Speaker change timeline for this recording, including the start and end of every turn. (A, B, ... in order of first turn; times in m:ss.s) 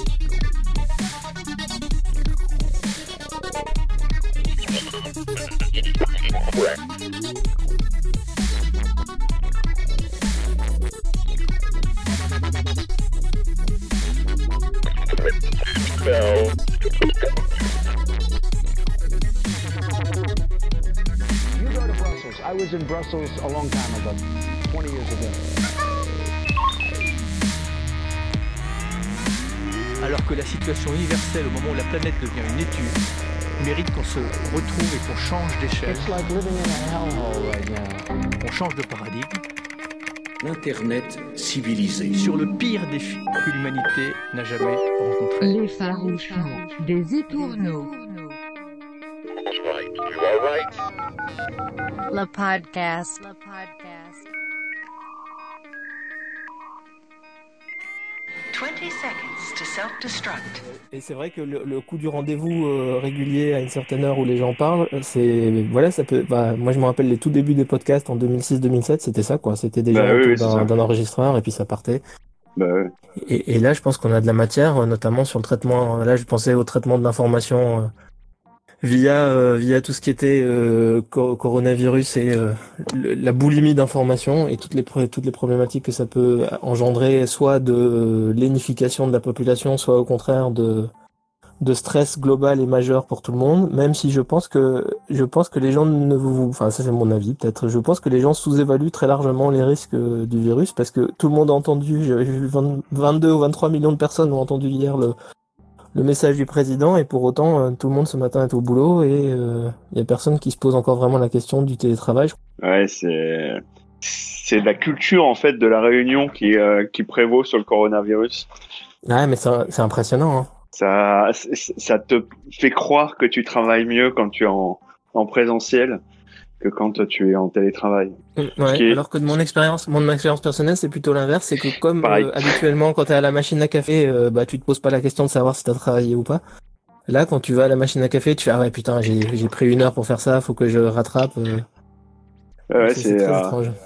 0:21.6-0:25.4 A
0:30.0-0:33.0 B
0:33.6-0:36.2 B
0:35.8-0:38.1 A
0:38.4-0:39.4 B
0:40.4-0:47.9 B
0:45.4-0:48.4 C
0:52.1-0:54.2 C
0:58.5-1:00.6 D
1:00.9-1:12.0 E
1:09.9-1:10.7 F
1:12.6-1:12.9 F
1:13.2-1:17.9 E
1:18.8-1:30.9 E
1:31.6-1:45.1 E
1:45.9-1:52.4 E
1:52.6-1:58.5 F
1:59.1-2:00.5 E
2:00.7-2:06.0 F
2:06.6-2:08.1 F
2:08.4-2:16.4 E
2:08.7-2:09.0 F
2:12.0-2:12.5 F
2:17.1-2:21.7 E
2:22.7-2:23.6 F
2:22.8-2:23.8 E